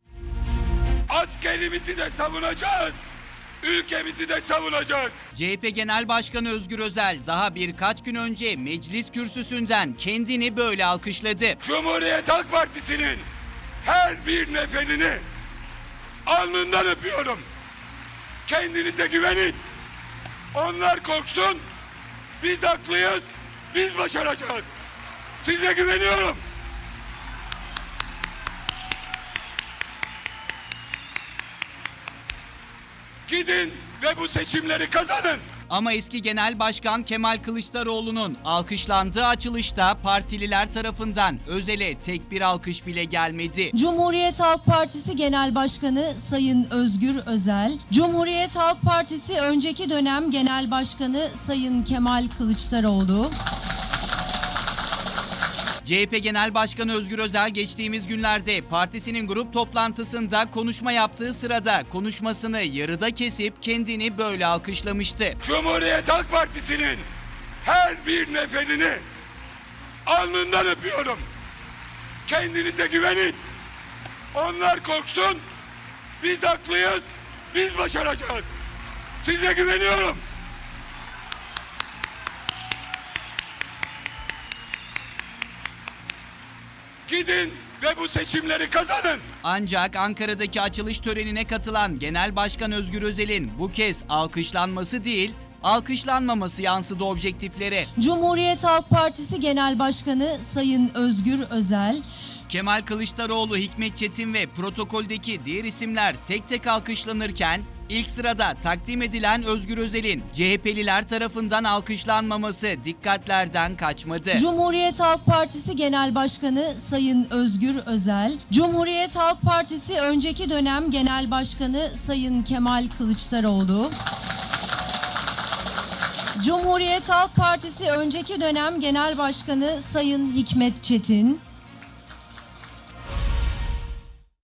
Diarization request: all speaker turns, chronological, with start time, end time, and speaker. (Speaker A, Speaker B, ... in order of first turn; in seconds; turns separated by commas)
Speaker A: 1.1-3.1, Speaker A: 3.6-5.3, Speaker B: 5.3-11.6, Speaker A: 11.6-13.2, Speaker A: 13.8-15.2, Speaker A: 16.2-17.4, Speaker A: 18.4-19.6, Speaker A: 20.5-21.6, Speaker A: 22.4-24.8, Speaker A: 25.4-26.4, Speaker A: 33.3-35.5, Speaker B: 35.7-43.7, Speaker C: 43.7-53.4, Speaker B: 55.8-65.4, Speaker A: 65.4-67.0, Speaker A: 67.6-69.0, Speaker A: 70.0-71.2, Speaker A: 72.2-73.4, Speaker A: 74.3-75.4, Speaker A: 76.2-78.6, Speaker A: 79.2-80.2, Speaker A: 87.1-89.3, Speaker B: 89.4-97.9, Speaker C: 98.0-102.0, Speaker B: 102.5-114.4, Speaker C: 114.3-124.0, Speaker C: 126.3-131.4